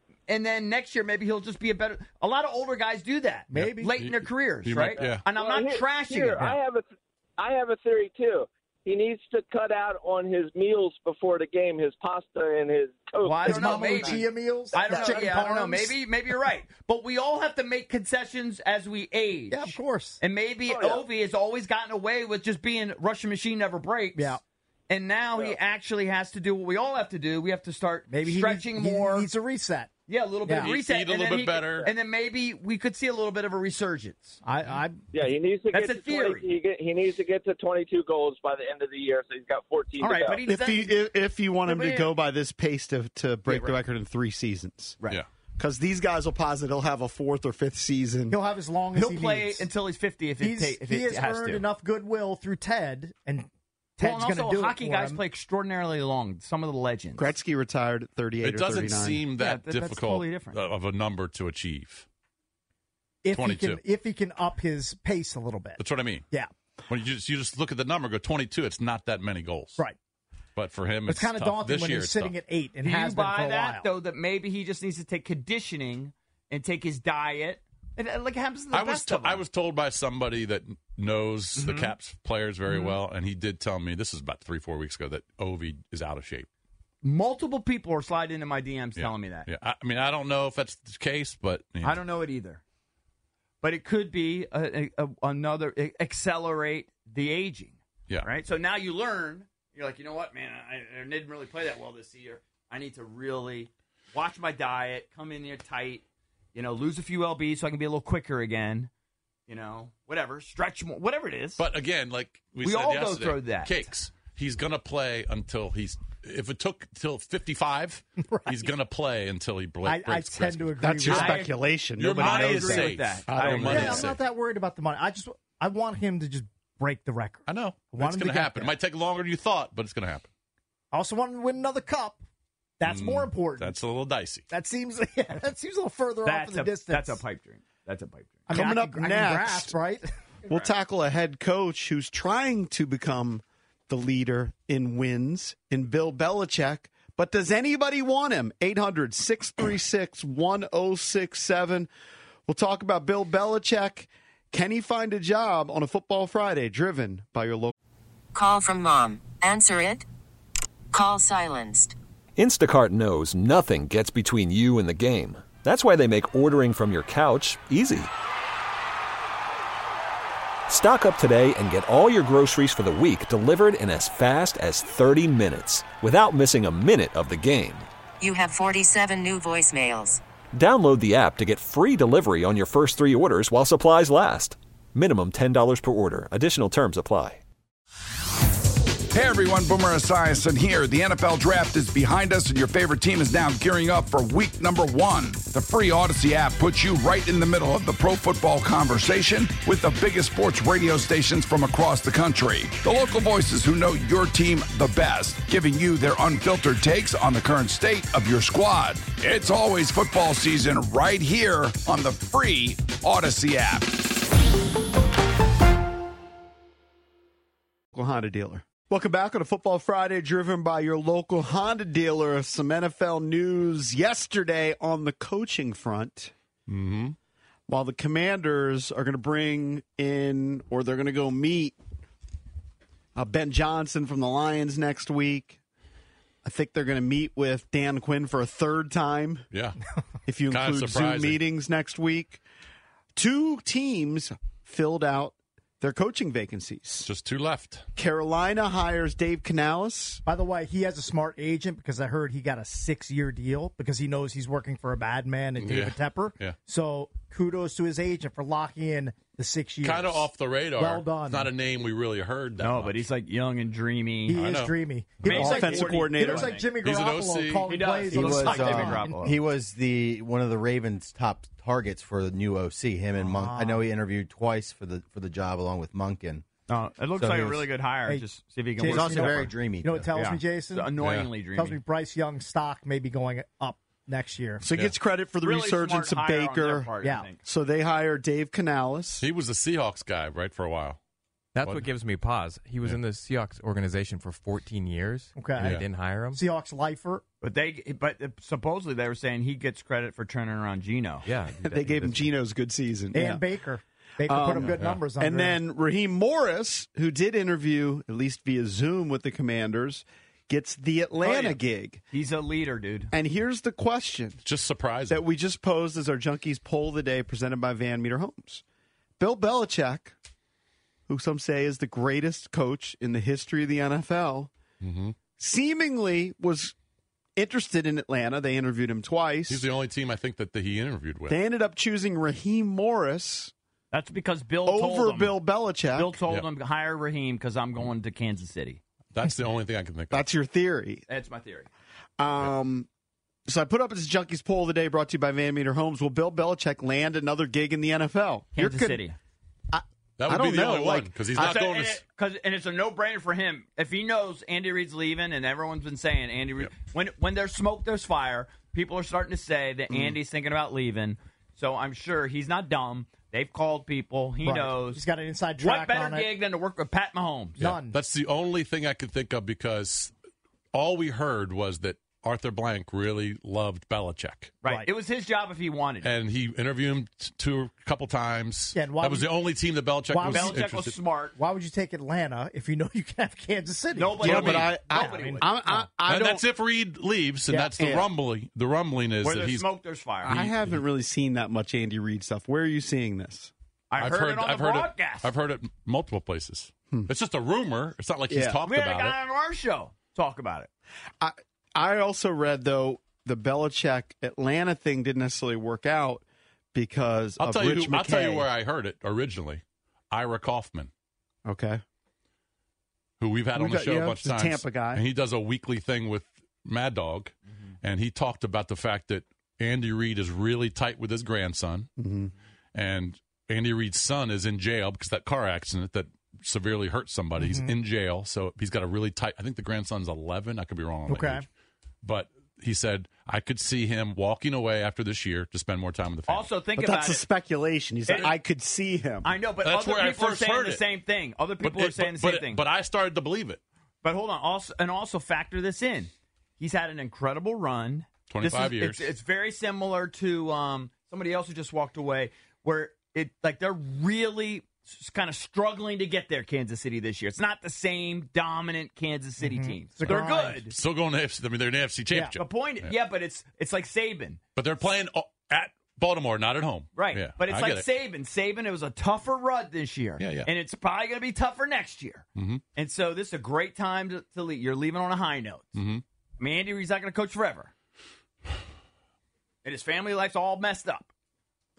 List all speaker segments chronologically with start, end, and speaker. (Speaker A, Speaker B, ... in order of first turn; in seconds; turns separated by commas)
Speaker A: 0.3-6.5, Speaker B: 3.5-3.9, Speaker C: 3.5-5.2, Speaker D: 5.0-6.9, Speaker D: 7.4-14.2, Speaker A: 13.2-24.4, Speaker B: 13.4-15.9, Speaker D: 14.7-15.4, Speaker B: 19.5-20.2, Speaker D: 20.7-21.0, Speaker B: 24.1-24.4, Speaker A: 24.9-29.3, Speaker B: 28.1-29.9, Speaker A: 30.1-34.4, Speaker B: 30.5-30.7, Speaker C: 30.6-31.9, Speaker B: 34.4-35.0, Speaker D: 35.1-40.4, Speaker A: 35.7-36.5, Speaker A: 40.0-41.0, Speaker E: 40.4-45.0, Speaker A: 41.7-42.1, Speaker A: 43.5-43.8, Speaker E: 45.6-48.4, Speaker B: 48.3-49.7, Speaker A: 48.9-51.6, Speaker B: 50.4-55.2, Speaker A: 54.0-57.3, Speaker E: 57.2-59.2, Speaker C: 58.4-62.0, Speaker A: 59.4-60.6, Speaker B: 63.2-65.8, Speaker C: 63.3-63.8, Speaker C: 65.8-66.2, Speaker C: 66.9-69.8, Speaker C: 70.6-72.3, Speaker B: 71.1-73.9, Speaker A: 72.8-79.4, Speaker C: 78.7-86.5, Speaker A: 81.6-81.9, Speaker A: 82.7-83.0, Speaker A: 87.0-89.5, Speaker C: 89.0-92.0, Speaker A: 91.8-92.6, Speaker A: 93.6-108.9, Speaker A: 109.5-111.6, Speaker C: 111.6-121.4, Speaker A: 112.6-113.8, Speaker B: 118.3-118.7, Speaker B: 119.8-121.5, Speaker E: 120.8-124.1, Speaker A: 121.1-121.5, Speaker C: 122.0-124.2, Speaker A: 122.1-124.1, Speaker B: 123.7-128.7, Speaker C: 127.5-130.3, Speaker B: 130.9-132.2, Speaker B: 132.8-133.8, Speaker C: 132.8-134.4, Speaker B: 134.5-137.2, Speaker A: 136.2-138.5, Speaker B: 138.5-140.1, Speaker E: 138.5-139.8, Speaker E: 140.5-151.9, Speaker E: 152.5-157.7, Speaker F: 158.3-160.0, Speaker F: 160.9-161.9, Speaker G: 162.4-168.1, Speaker G: 170.7-177.9, Speaker F: 178.2-180.2, Speaker G: 180.5-187.4, Speaker H: 189.1-213.9, Speaker E: 217.9-226.3, Speaker C: 226.7-227.2, Speaker E: 227.7-231.8, Speaker E: 233.2-235.6, Speaker E: 236.4-239.4, Speaker C: 239.5-239.8, Speaker E: 240.3-242.4, Speaker C: 240.5-241.4, Speaker E: 243.2-247.1, Speaker C: 247.1-247.8, Speaker E: 248.0-250.2, Speaker B: 250.3-261.5, Speaker C: 255.6-256.6, Speaker C: 259.8-263.0, Speaker A: 262.6-264.4, Speaker B: 264.3-269.4, Speaker C: 264.4-264.7, Speaker A: 265.2-266.7, Speaker E: 265.3-266.6, Speaker C: 266.8-267.9, Speaker A: 267.7-269.4, Speaker I: 268.1-276.4, Speaker B: 273.2-273.9, Speaker A: 276.7-279.5, Speaker I: 277.2-277.6, Speaker B: 278.8-280.9, Speaker I: 278.8-280.1, Speaker A: 280.1-281.8, Speaker C: 281.0-281.3, Speaker B: 281.6-284.6, Speaker E: 284.6-286.9, Speaker A: 285.4-287.4, Speaker E: 287.4-289.2, Speaker C: 289.2-291.0, Speaker J: 291.6-296.4, Speaker C: 291.6-291.9, Speaker B: 295.4-295.8, Speaker C: 295.6-295.9, Speaker B: 296.3-297.2, Speaker A: 297.4-301.3, Speaker J: 301.2-302.3, Speaker E: 301.6-303.4, Speaker B: 303.1-305.6, Speaker E: 304.2-312.0, Speaker A: 311.2-313.1, Speaker E: 313.1-314.4, Speaker C: 314.4-315.2, Speaker E: 315.1-318.6, Speaker E: 319.2-320.1, Speaker E: 321.1-324.5, Speaker C: 324.8-325.2, Speaker E: 325.4-326.8, Speaker E: 327.4-329.7, Speaker C: 329.5-331.4, Speaker E: 331.3-333.5, Speaker A: 333.9-335.4, Speaker E: 334.6-336.2, Speaker A: 335.9-338.8, Speaker C: 339.1-340.3, Speaker E: 340.1-341.1, Speaker A: 341.1-341.7, Speaker E: 342.2-342.9, Speaker E: 343.5-349.0, Speaker A: 348.6-349.2, Speaker E: 349.7-351.2, Speaker C: 350.2-352.0, Speaker A: 351.4-365.0, Speaker B: 364.4-366.3, Speaker A: 365.6-367.6, Speaker B: 367.6-368.0, Speaker C: 367.6-370.1, Speaker C: 370.7-374.5, Speaker A: 374.6-376.1, Speaker C: 376.0-380.9, Speaker B: 378.8-379.3, Speaker B: 380.1-380.6, Speaker A: 380.3-381.4, Speaker B: 381.4-385.4, Speaker A: 383.9-385.6, Speaker E: 384.2-386.4, Speaker C: 384.2-384.8, Speaker C: 386.1-389.7, Speaker E: 387.8-388.1, Speaker A: 389.2-390.5, Speaker E: 390.2-393.5, Speaker A: 393.9-395.3, Speaker C: 394.0-399.2, Speaker E: 398.3-398.6, Speaker A: 398.6-400.7, Speaker E: 401.2-408.5, Speaker C: 407.4-410.9, Speaker E: 411.5-411.8, Speaker C: 413.2-421.9, Speaker E: 413.5-415.0, Speaker E: 422.0-422.3, Speaker C: 422.8-431.4, Speaker B: 427.4-427.7, Speaker B: 431.1-431.4, Speaker C: 432.0-436.5, Speaker A: 436.3-437.3, Speaker E: 436.8-439.3, Speaker A: 438.1-438.3, Speaker A: 439.2-442.6, Speaker C: 439.6-440.8, Speaker C: 441.6-443.6, Speaker A: 444.0-460.7, Speaker C: 448.3-449.1, Speaker B: 459.4-460.6, Speaker C: 460.1-462.9, Speaker A: 462.4-464.4, Speaker C: 464.6-467.9, Speaker A: 466.9-475.8, Speaker C: 470.2-470.5, Speaker C: 472.4-472.6, Speaker C: 475.8-476.0, Speaker A: 476.4-477.7, Speaker A: 479.6-481.1